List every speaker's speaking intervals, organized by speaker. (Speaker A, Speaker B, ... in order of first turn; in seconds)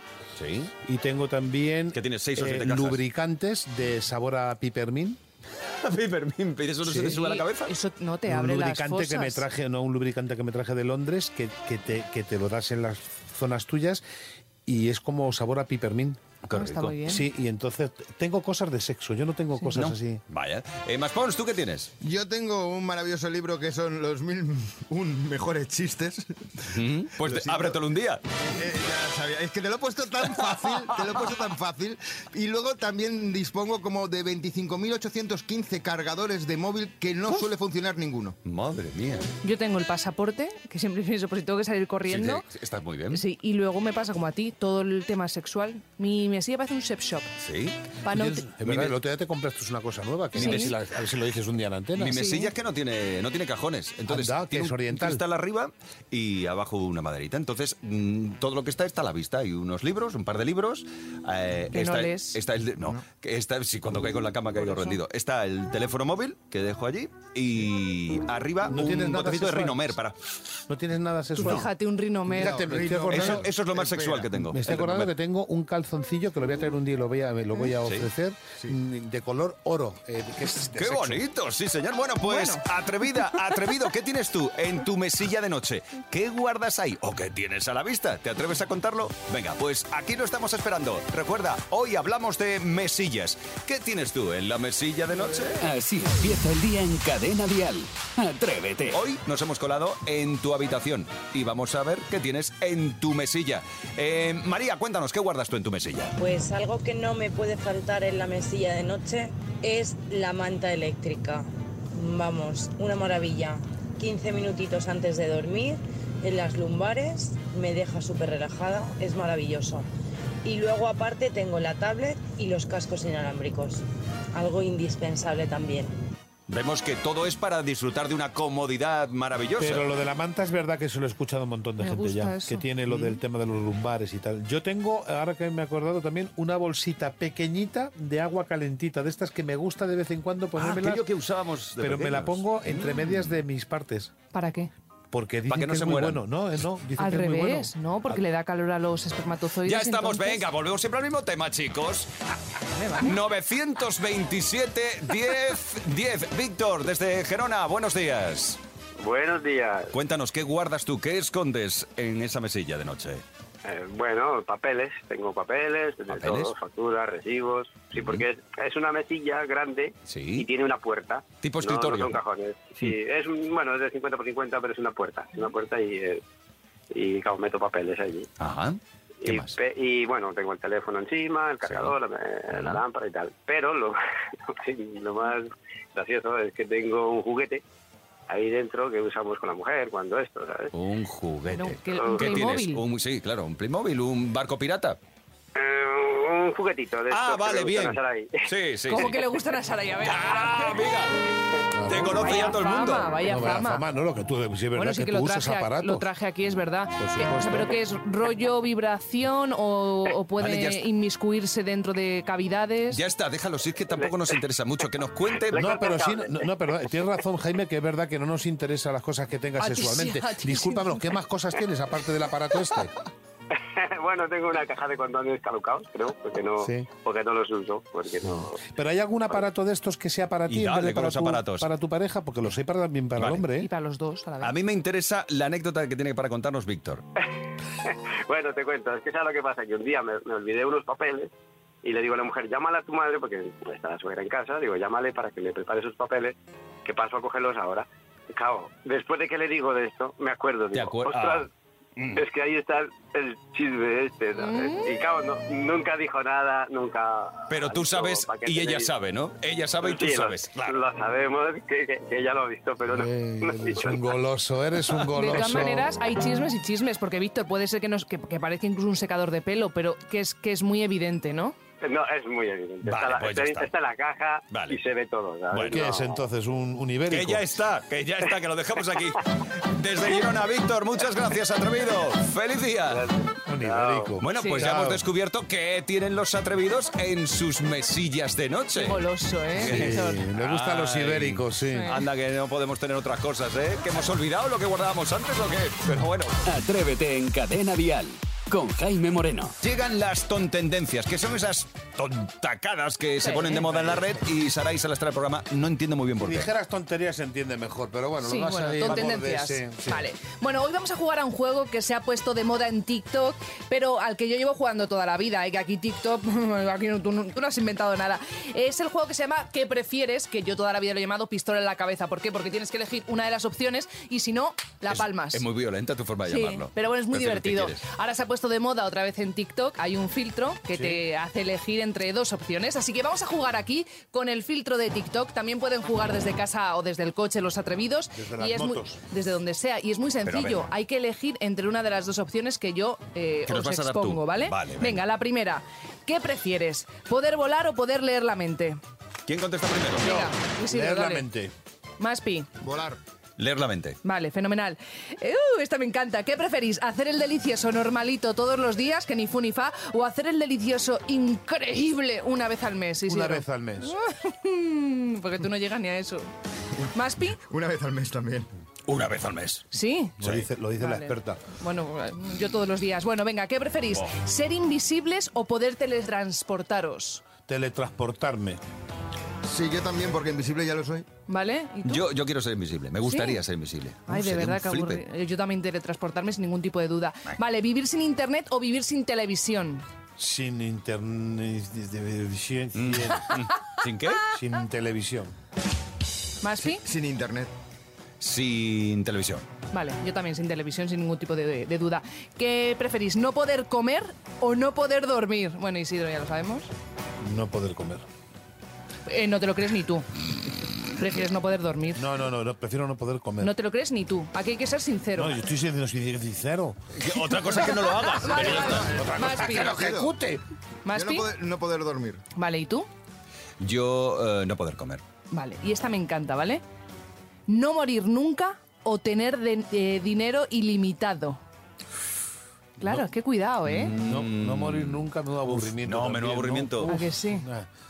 Speaker A: 0.4-0.7, 1.9-3.0, 5.7-7.8, 16.5-17.0, 19.6-21.9, 26.7-28.2, 38.5-39.3, 42.1-43.2, 47.4-47.8, 48.6-49.0, 50.4-50.7, 52.0-70.2, 73.1-75.1, 80.8-95.6, 98.9-106.2, 126.5-129.9, 140.6-143.3, 145.5-146.2, 149.6-152.1, 153.0-158.6, 159.9-163.2, 166.1-166.5, 167.9-168.2, 170.1-170.5, 171.4-172.2, 178.4-179.6, 181.7-181.9, 182.5-182.8, 190.7-195.0, 197.1-199.2, 200.0-201.3, 201.9-203.2, 210.4-210.9, 212.9-215.7, 230.5-231.7, 233.2-233.5, 234.4-237.1, 250.7-252.2, 257.5-260.8, 272.9-273.7, 274.5-274.8, 275.5-275.8, 277.1-283.1, 284.2-296.4, 299.6-306.5, 324.9-327.8, 340.3-340.7, 343.5-345.0, 349.3-350.1, 353.4-354.0, 368.9-369.6, 370.2-370.5, 381.9-385.0, 392.8-394.3, 398.2-399.4, 416.9-419.0, 423.6-425.0, 433.6-436.9
Speaker B: 0.7-5.2, 6.8-7.2, 8.3-14.0, 14.7-16.2, 17.0-20.2, 48.1-52.2, 54.1-55.2, 68.7-70.0, 70.7-71.7, 72.3-73.5, 74.4-81.2, 129.6-141.1, 141.8-144.1, 145.1-147.7, 201.7-202.4, 203.2-206.1, 207.0-207.7, 215.5-222.9, 226.6-226.9, 228.6-233.7, 262.9-265.9, 275.7-277.5, 283.5-285.0, 289.6-292.0, 306.2-310.0, 338.1-339.0, 350.0-351.5, 363.1-363.9, 370.2-371.4, 377.5-378.6, 390.2-393.4, 394.3-395.3, 407.2-408.1, 412.0-413.5, 415.1-416.8, 418.6-420.4, 434.0-437.7
Speaker C: 7.1-9.4, 16.5-17.3, 39.4-42.5, 43.1-47.3, 48.0-48.4, 50.4-50.7, 52.1-52.5, 61.7-62.4, 71.4-72.9, 82.2-82.7, 131.8-132.6, 144.3-144.7, 147.0-150.4, 152.8-153.2, 191.5-192.8, 198.9-200.9, 201.9-203.8, 204.8-213.0, 219.6-221.1, 233.6-234.6, 254.4-254.9, 265.1-271.6, 284.3-284.7, 288.7-290.2, 291.7-292.0, 303.2-303.6, 308.2-325.4, 326.3-348.8, 350.0-351.3, 352.0-352.5, 354.0-366.3, 366.9-367.4, 369.7-370.1, 370.8-377.2, 381.3-382.1, 383.1-383.4, 384.1-389.8, 396.4-396.8, 399.7-406.7, 409.1-410.1, 410.9-412.1, 413.4-415.4, 417.9-419.8, 420.9-421.3, 422.4-422.9, 425.3-426.6, 427.5-431.4, 432.8-433.9, 436.9-437.5
Speaker D: 22.0-27.8, 28.5-38.4, 72.3-74.3, 352.6-353.0, 367.4-368.5, 379.4-381.1, 396.6-397.5, 418.3-420.1, 420.9-422.2
Speaker E: 95.6-99.0, 296.5-299.6
Speaker F: 106.2-119.9, 120.5-123.8, 124.3-125.9
Speaker G: 159.0-159.9, 163.7-176.2, 176.9-178.3, 179.2-187.6, 188.3-190.7, 191.9-192.4, 195.6-198.5, 215.5-216.4, 223.5-228.6, 237.8-241.3, 241.8-251.5, 252.1-258.9, 259.8-264.1, 271.8-276.2, 282.9-284.2